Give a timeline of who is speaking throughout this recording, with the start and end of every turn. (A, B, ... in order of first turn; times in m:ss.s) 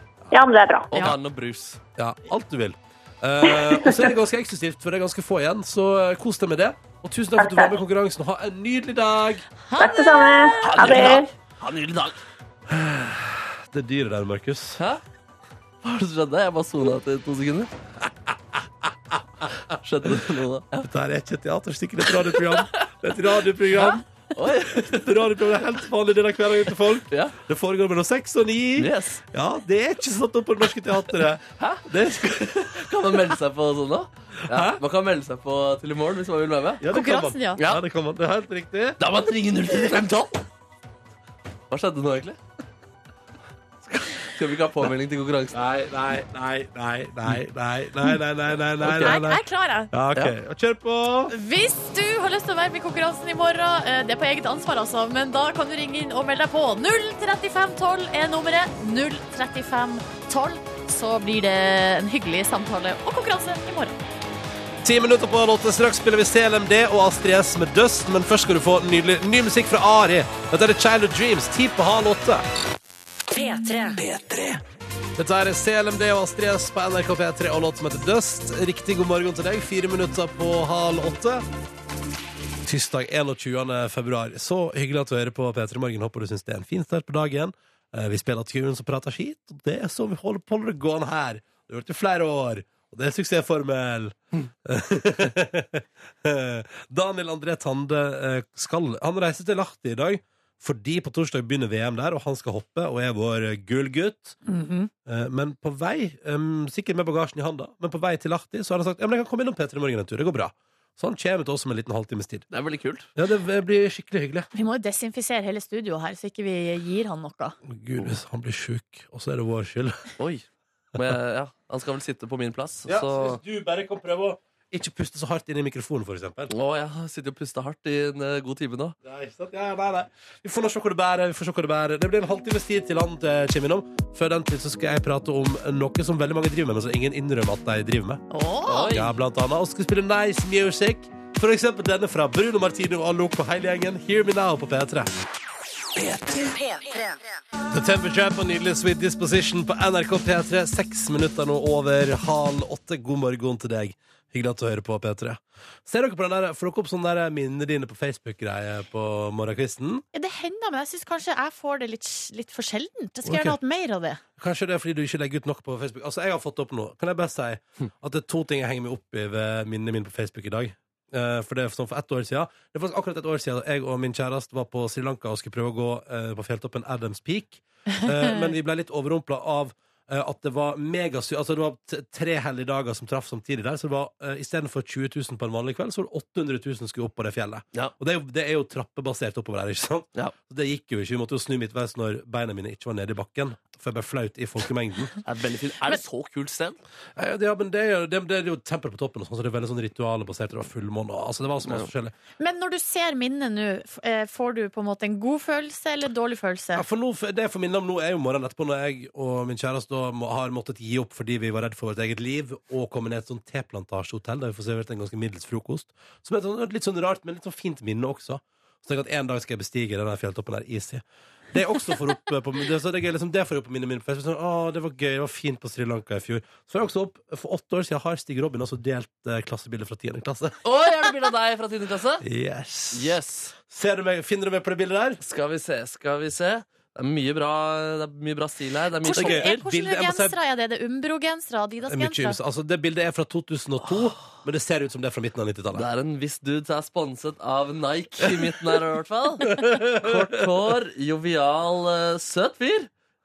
0:00.3-0:00.9 A
0:00.9-0:01.8 B
0:02.0-0:09.4 C
0:03.5-0:04.1 A
0:07.4-0:07.7 A
0:09.6-0:11.2 D
0:09.8-0:11.2 A
0:10.6-0:12.2 B
0:12.7-0:14.8 C
0:15.8-0:17.7 B
0:18.0-0:19.5 C
0:19.7-0:20.9 B
0:20.8-0:24.0 C
0:22.3-0:22.9 B
0:23.7-0:25.5 B
0:24.6-0:33.1 C
0:27.1-0:27.4 B
0:28.8-0:29.2 B
0:31.6-0:36.8 B
0:34.5-0:34.8 C
0:36.8-0:39.0 C
0:36.9-0:37.6 D
0:39.0-0:40.4 B
0:41.7-0:42.4 B
0:43.8-0:45.6 B
0:45.5-0:51.3 C
0:48.8-0:49.2 B
0:49.0-0:49.9 D
0:51.3-1:04.0 D
1:04.8-1:12.4 C
1:13.3-1:14.6 E
1:15.2-1:21.4 C
1:22.6-1:44.4 C
1:44.4-1:44.9 D
1:45.0-1:52.5 C
1:52.5-1:53.1 B
1:53.2-1:54.5 C
1:54.5-1:57.6 D
1:57.6-2:00.1 C
2:00.2-2:03.4 B
2:02.8-2:06.5 C
2:06.5-2:08.9 B
2:09.0-2:18.2 C
2:18.3-2:18.9 D
2:18.6-2:19.1 B
2:18.9-2:25.1 C
2:26.0-2:27.2 E
2:27.7-2:40.0 C
2:40.1-2:44.2 D
2:43.2-2:43.6 C
2:44.4-3:15.2 C
2:58.0-2:58.3 D
3:15.2-3:16.8 B
3:17.2-3:22.1 C
3:22.4-3:26.8 D
3:26.7-3:50.6 C
3:50.6-3:52.2 B
3:52.2-3:53.2 C
3:52.9-3:53.5 B
3:53.7-3:55.2 C
3:55.2-3:59.6 B
3:59.0-4:02.4 D
3:59.1-4:00.4 C
4:01.9-4:05.9 C
4:05.7-4:12.9 B
4:09.4-4:10.5 C